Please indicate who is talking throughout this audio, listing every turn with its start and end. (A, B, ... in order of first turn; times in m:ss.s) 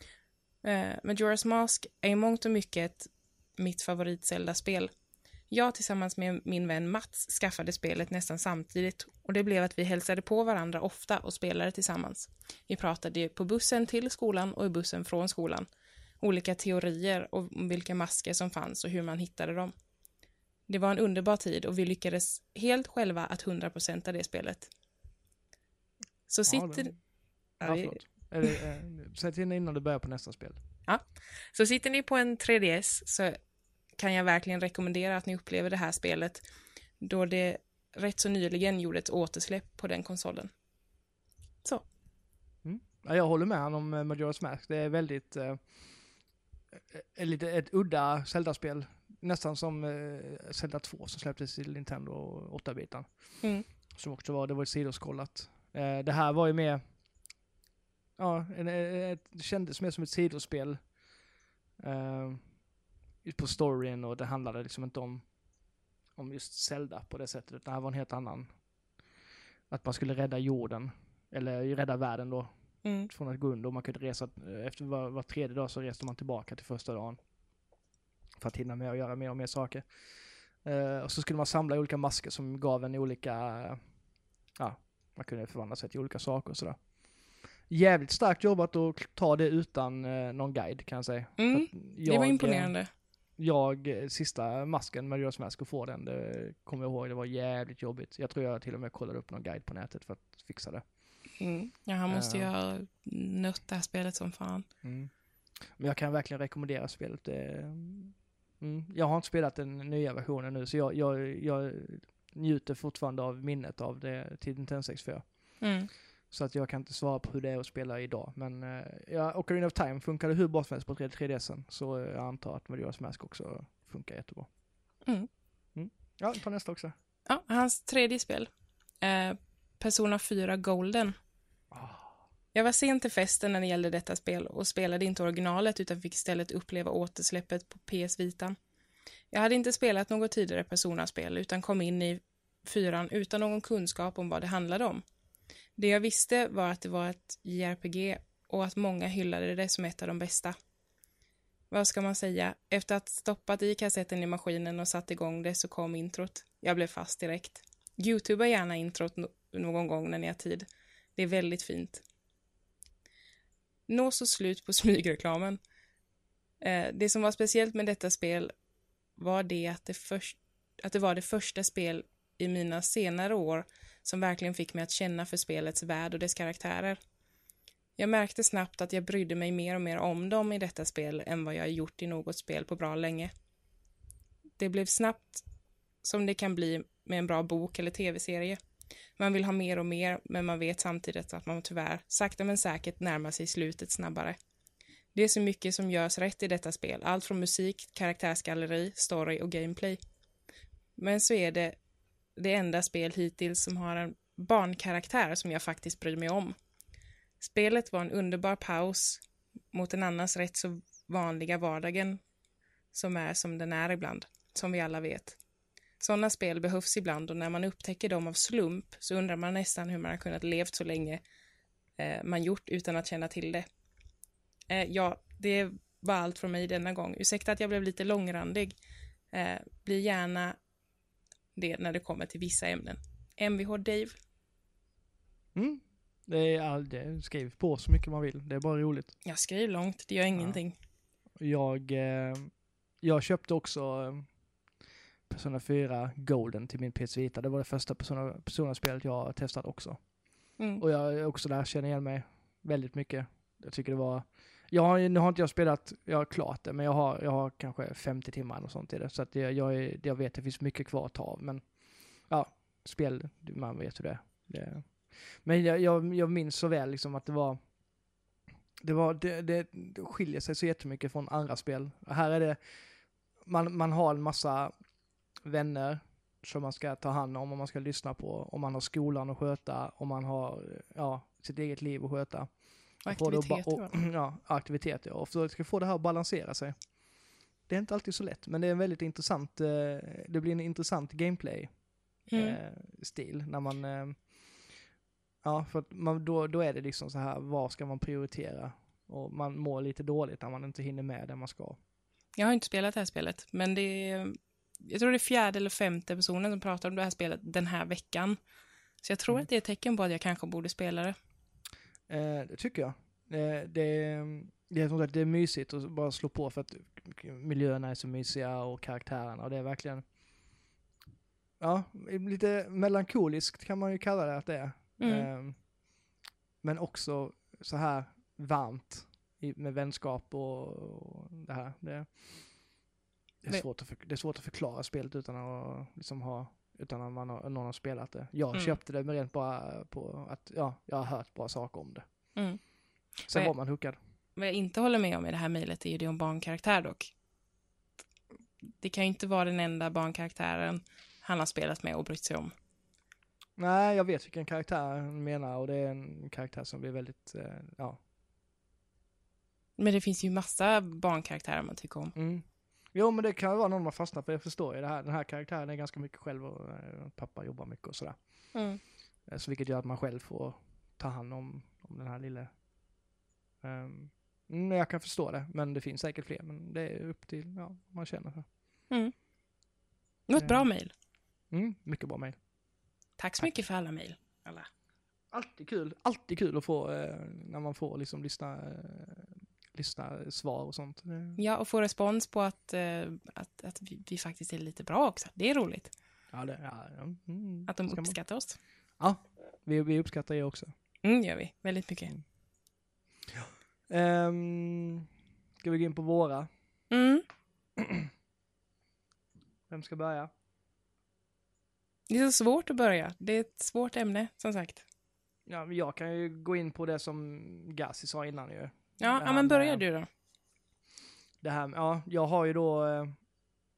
0:00.6-0:04.9 A
0:05.5-0:15.6 A
0:16.2-0:19.7 A
0:20.7-0:24.7 A
0:26.3-0:27.0 A
0:26.5-0:27.0 B
0:27.6-0:28.6 A
0:27.6-0:30.6 B
0:30.9-0:33.4 A
0:34.0-0:36.4 A
0:37.0-0:40.5 A
0:42.6-0:46.0 B
0:46.9-0:56.8 B
0:53.4-0:53.6 A
0:58.2-1:00.8 B
1:01.8-1:02.5 B
1:03.2-1:05.3 B
1:06.2-1:08.5 B
1:09.7-1:12.5 B
1:12.8-1:13.1 A
1:13.1-1:17.2 B
1:18.4-1:19.9 B
1:20.6-1:23.8 B
1:24.6-1:26.8 B
1:27.7-1:32.8 B
1:31.4-1:32.9 A
1:33.4-1:40.8 B
1:41.4-1:44.6 A
1:42.1-1:42.5 B
1:44.8-1:55.6 B
1:55.6-1:55.9 A
1:56.3-2:04.5 B
2:05.7-2:06.9 B
2:07.3-2:08.5 A
2:09.0-2:11.2 A
2:11.7-2:12.2 B
2:12.5-2:18.6 A
2:19.3-2:25.0 A
2:25.8-2:30.5 A
2:31.7-2:42.0 A
2:43.9-2:45.6 A
2:46.6-2:48.5 A
2:49.2-2:57.0 A
2:58.0-3:03.3 A
3:04.6-3:05.4 A
3:06.0-3:08.6 A
3:09.2-3:14.4 A
3:15.1-3:20.0 A
3:21.0-3:21.7 A
3:22.4-3:26.5 A
3:27.4-3:32.2 A
3:32.9-3:35.4 A
3:36.0-3:41.2 A
3:42.0-3:43.6 A
3:44.7-3:48.8 A
3:49.3-3:50.6 A
3:51.6-3:54.2 A
3:55.5-3:59.2 B
3:59.2-4:00.7 A
4:00.3-4:00.6 B
4:01.4-4:04.3 B
4:05.3-4:10.0 B
4:10.6-4:10.8 A
4:10.8-4:27.6 B
4:28.8-4:32.8 B
4:33.4-4:34.7 B
4:35.4-4:46.9 B
4:43.0-4:43.9 A
4:47.6-4:54.7 B
4:52.3-4:52.6 A
4:55.4-5:01.8 B
5:02.4-5:08.4 A
5:09.0-5:11.2 A
5:12.1-5:20.0 B
5:21.6-5:25.6 B
5:25.0-5:25.3 A
5:26.6-5:32.7 B
5:33.4-5:42.0 B
5:42.3-5:42.6 A
5:43.2-5:43.5 A
5:43.3-5:44.0 B
5:44.4-5:47.1 A
5:48.8-5:52.5 A
5:53.6-5:58.0 B
5:59.8-6:02.1 A
6:02.2-6:08.2 B
6:08.5-6:08.8 A
6:09.2-6:12.5 B
6:13.6-6:18.5 B
6:20.3-6:20.9 A
6:20.4-6:20.7 B
6:21.5-6:22.4 B
6:23.2-6:24.7 A
6:25.3-6:31.4 B
6:31.4-6:35.9 A
6:36.3-6:38.2 B
6:37.7-6:38.6 A
6:39.0-6:40.7 B
6:41.0-6:42.1 A
6:43.3-6:45.1 B
6:45.6-6:46.5 B
6:46.9-6:47.2 A
6:47.8-6:48.1 B
6:49.7-6:50.3 B
6:52.1-6:54.8 A
6:55.4-6:59.8 B
6:59.0-7:00.1 A
7:01.4-7:03.2 B